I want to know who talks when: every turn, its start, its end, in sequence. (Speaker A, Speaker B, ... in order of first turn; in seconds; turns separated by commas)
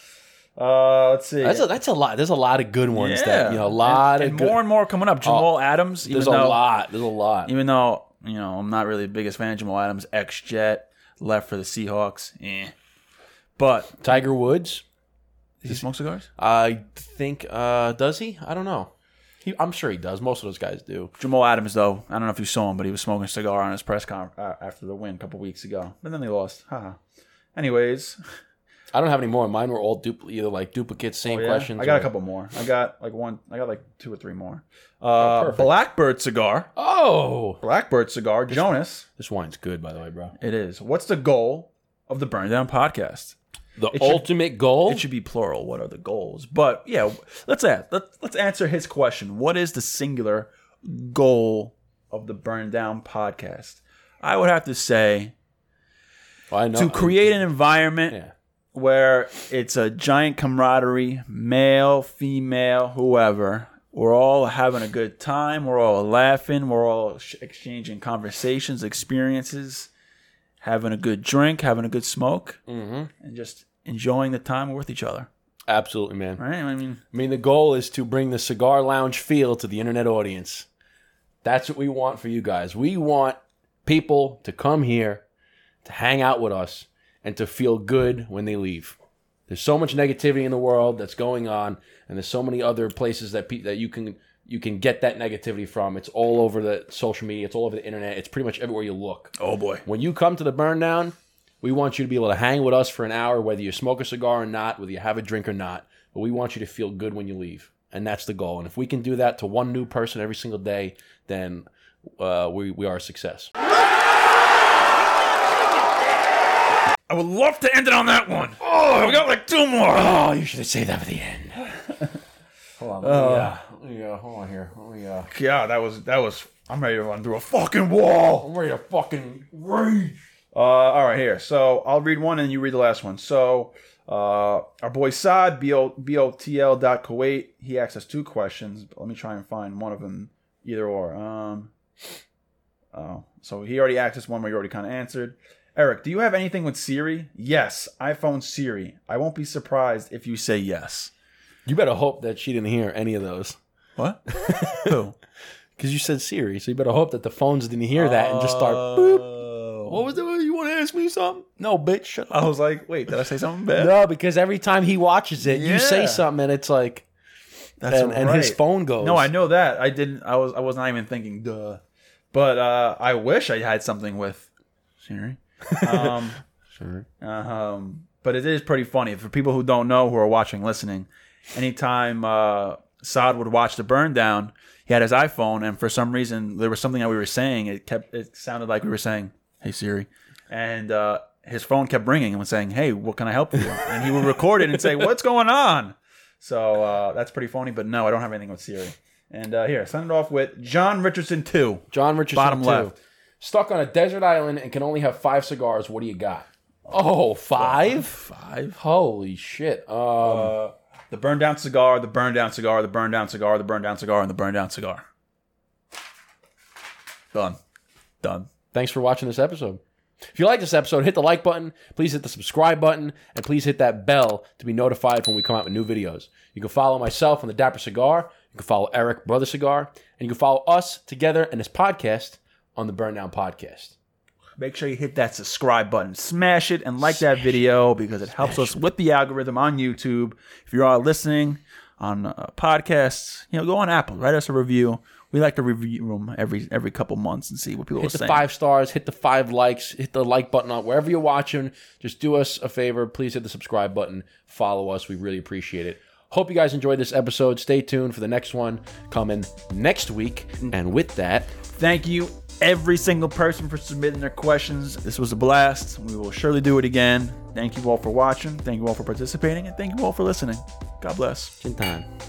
Speaker A: 0.6-1.7, Speaker B: 1.4-4.6, Speaker A: 2.9-6.6, Speaker B: 5.2-5.5, Speaker B: 6.0-7.5, Speaker A: 7.5-12.7, Speaker A: 13.6-14.2, Speaker B: 14.0-14.8, Speaker A: 15.6-16.3, Speaker B: 16.4-18.9, Speaker B: 19.4-21.1, Speaker A: 21.2-27.0, Speaker A: 27.5-28.2, Speaker B: 28.9-32.1, Speaker A: 31.2-36.7, Speaker B: 35.2-35.7, Speaker B: 36.8-37.6, Speaker A: 37.6-39.0, Speaker B: 38.5-40.3, Speaker A: 40.4-43.4, Speaker B: 43.8-45.0, Speaker A: 43.9-44.2, Speaker A: 44.9-55.3, Speaker B: 56.5-57.4, Speaker A: 56.7-58.2, Speaker A: 58.7-69.9, Speaker A: 70.6-72.6, Speaker B: 72.7-73.1, Speaker A: 73.2-75.3, Speaker B: 75.7-76.4, Speaker A: 76.4-77.0, Speaker B: 77.1-80.7, Speaker B: 81.4-85.2, Speaker B: 85.8-89.0, Speaker B: 89.5-99.3, Speaker A: 99.4-99.8, Speaker B: 99.8-111.6, Speaker B: 112.2-113.5, Speaker A: 117.1-120.0, Speaker B: 118.6-119.2, Speaker B: 119.8-121.6, Speaker A: 122.8-123.5, Speaker B: 123.0-125.3, Speaker A: 125.3-128.5, Speaker B: 128.4-130.2, Speaker A: 130.5-141.7, Speaker A: 142.9-151.1, Speaker B: 151.7-153.6, Speaker A: 154.0-155.1, Speaker B: 154.3-155.0, Speaker B: 155.8-159.3, Speaker A: 157.9-160.0, Speaker B: 159.9-162.4, Speaker A: 162.3-163.9, Speaker B: 163.7-167.1, Speaker A: 165.4-166.2, Speaker A: 167.8-171.8, Speaker B: 167.9-169.3, Speaker A: 172.3-174.5, Speaker A: 175.0-176.4, Speaker B: 175.7-176.2, Speaker B: 176.8-177.1, Speaker A: 177.2-202.9, Speaker B: 201.9-208.2, Speaker A: 207.6-208.8, Speaker B: 208.7-210.5, Speaker A: 210.2-215.0, Speaker A: 217.3-217.6, Speaker A: 218.2-218.5, Speaker B: 218.7-219.8, Speaker B: 220.3-233.9, Speaker A: 234.6-248.4, Speaker B: 248.0-261.5, Speaker A: 261.7-271.5, Speaker B: 271.6-272.1